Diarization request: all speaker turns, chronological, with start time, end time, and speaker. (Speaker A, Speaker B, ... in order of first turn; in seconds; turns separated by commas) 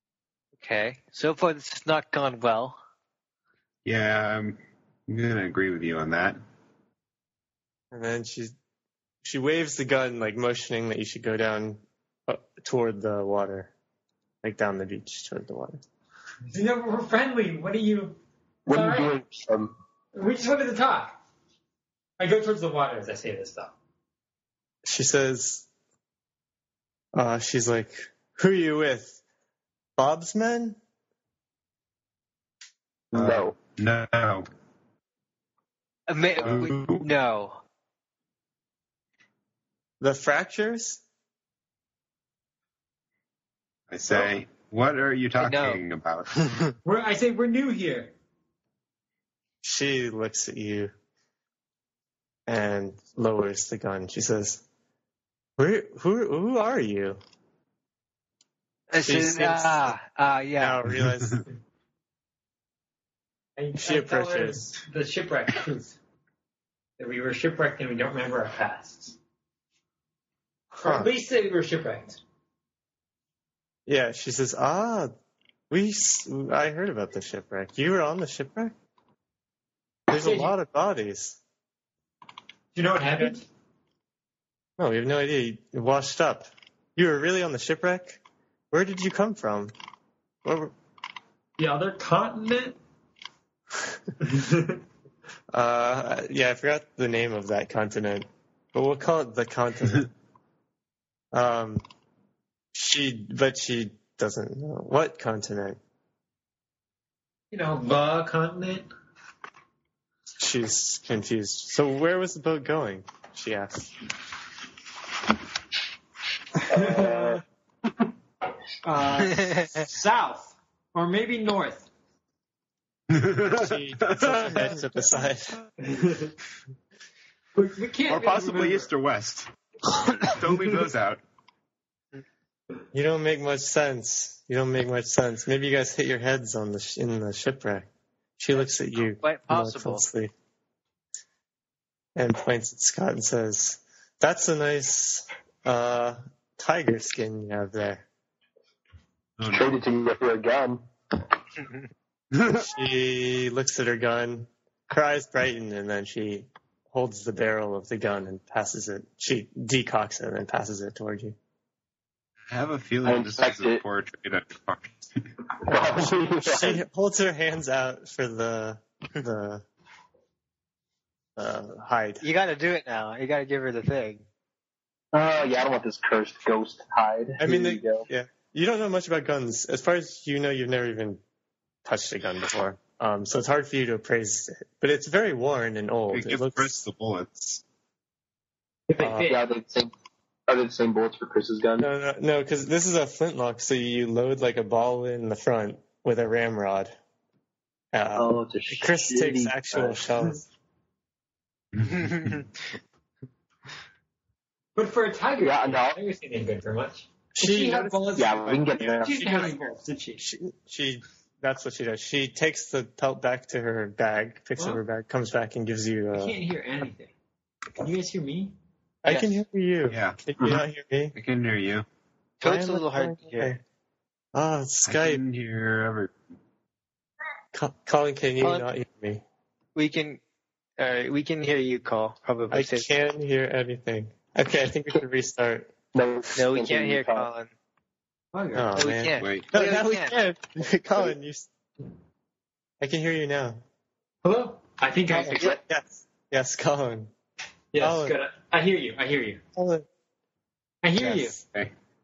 Speaker A: 0.6-2.8, Speaker B: 3.8-4.5, Speaker B: 5.1-6.4, Speaker C: 7.9-8.5, Speaker C: 9.2-13.7, Speaker C: 14.4-15.8, Speaker D: 16.5-18.2, Speaker E: 18.7-19.7, Speaker D: 18.7-19.1, Speaker D: 20.1-21.2, Speaker D: 22.2-23.7, Speaker C: 24.8-25.6, Speaker C: 27.1-29.2, Speaker C: 30.0-30.8, Speaker E: 33.1-33.5, Speaker B: 33.1-34.5, Speaker A: 36.1-37.6, Speaker B: 36.4-37.0, Speaker C: 40.0-41.0, Speaker B: 43.9-46.5, Speaker A: 45.4-45.8, Speaker D: 46.8-48.1, Speaker C: 49.6-50.9, Speaker C: 52.5-54.6, Speaker C: 55.6-57.2, Speaker A: 58.9-60.8, Speaker C: 59.0-60.0, Speaker C: 60.6-61.5, Speaker D: 63.6-66.0, Speaker C: 63.8-64.7, Speaker D: 67.0-69.2, Speaker C: 70.8-71.1, Speaker D: 70.8-72.2, Speaker C: 73.9-75.1, Speaker C: 75.7-78.7, Speaker C: 80.1-81.4, Speaker D: 80.1-80.5, Speaker D: 82.7-83.5, Speaker C: 84.8-89.7, Speaker C: 90.4-90.7, Speaker D: 91.6-92.8, Speaker D: 94.2-94.8, Speaker C: 95.5-100.1, Speaker C: 101.3-101.8, Speaker C: 102.7-105.8, Speaker D: 107.5-108.9, Speaker C: 110.4-113.9, Speaker D: 116.6-117.4, Speaker E: 116.7-117.4, Speaker D: 118.8-121.9, Speaker B: 123.1-124.5, Speaker C: 123.5-125.5, Speaker D: 125.8-126.3, Speaker D: 127.5-128.9, Speaker B: 128.1-129.5, Speaker B: 130.2-131.2, Speaker C: 132.9-137.9, Speaker C: 138.4-140.3, Speaker A: 138.6-140.1, Speaker C: 142.2-148.1, Speaker B: 149.4-149.8, Speaker E: 149.5-150.8, Speaker B: 152.3-152.6, Speaker C: 152.5-161.3, Speaker B: 162.5-165.3, Speaker E: 163.0-163.8, Speaker E: 165.6-166.8, Speaker C: 165.7-169.6, Speaker C: 171.3-172.2, Speaker A: 172.2-174.2, Speaker E: 175.1-178.1, Speaker C: 177.4-181.2, Speaker C: 181.8-186.8, Speaker B: 186.1-187.6, Speaker D: 188.9-189.4, Speaker C: 189.0-189.3, Speaker E: 189.2-189.9, Speaker E: 190.5-191.9, Speaker C: 191.8-196.9, Speaker C: 197.9-200.4, Speaker E: 198.1-200.0, Speaker B: 201.8-202.4, Speaker A: 202.0-202.4, Speaker D: 204.8-210.2, Speaker E: 205.4-206.0, Speaker C: 207.3-209.5, Speaker E: 208.2-209.1, Speaker C: 210.2-216.3, Speaker D: 216.1-217.1, Speaker D: 217.8-218.5, Speaker C: 219.0-221.1, Speaker A: 219.1-219.4, Speaker B: 219.9-220.6, Speaker B: 221.1-221.8, Speaker A: 222.4-223.6, Speaker C: 222.4-223.6, Speaker C: 224.3-225.2, Speaker B: 224.8-226.1, Speaker C: 227.5-229.2, Speaker A: 228.4-228.7, Speaker A: 229.7-230.2, Speaker A: 230.8-232.9, Speaker C: 232.5-235.7, Speaker E: 235.9-237.3, Speaker A: 236.3-237.5, Speaker D: 238.3-238.9, Speaker C: 238.5-241.5, Speaker A: 238.8-240.2, Speaker B: 239.2-239.5, Speaker C: 242.8-243.6, Speaker D: 244.2-245.5, Speaker C: 245.2-247.1, Speaker A: 245.2-245.6, Speaker D: 247.7-249.4, Speaker C: 247.8-248.2, Speaker C: 249.6-249.8, Speaker D: 250.8-251.4, Speaker C: 251.0-251.4